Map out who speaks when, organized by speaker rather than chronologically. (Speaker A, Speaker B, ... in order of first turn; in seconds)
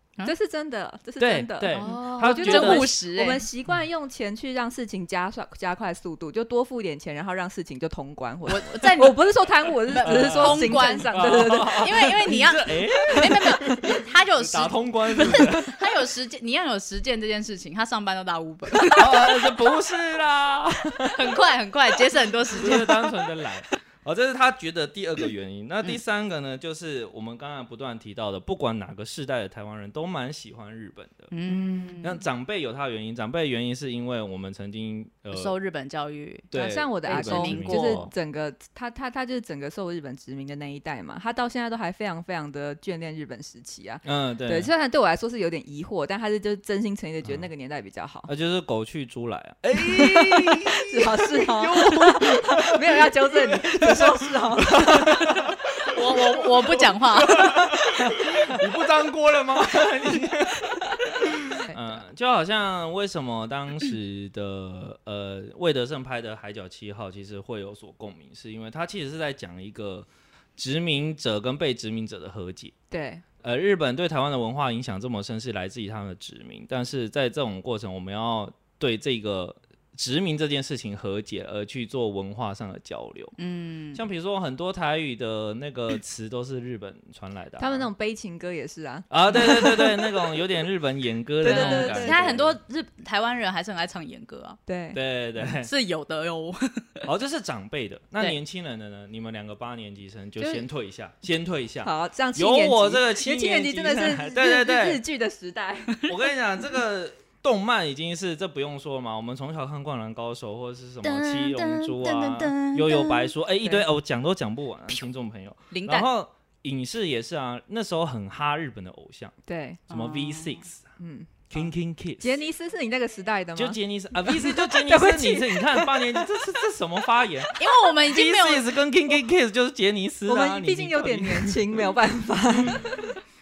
Speaker A: 0.2-12.0, 31.5-32.0, 36.5-48.3, 49.8-55.4, 61.6-62.0, 72.9-73.2, 87.6-90.0, 91.4-92.3, 94.7-95.0, 100.4-100.7, 101.8-106.0, 119.4-119.8, 121.0-121.5, 122.2-126.2, 130.2-133.2
Speaker B: 1.2-2.9, 10.0-15.8, 18.9-21.3, 22.6-31.3, 32.0-35.5, 36.5-38.1, 44.0-44.7, 48.3-72.7, 73.4-83.3, 83.9-87.9, 89.1-92.6, 94.9-95.7, 97.0-105.0, 106.0-119.3, 119.9-120.9, 121.5-122.4, 123.5-131.7, 132.7-133.0
Speaker C: 1.7-3.5, 8.5-9.3, 9.8-19.6, 21.1-23.1, 31.3-32.2, 35.3-36.5, 37.0-38.0, 55.9-57.7, 83.4-84.0, 91.4-94.6, 95.6-97.0, 111.0-113.3, 115.7-116.1, 119.9-120.6, 127.6-128.7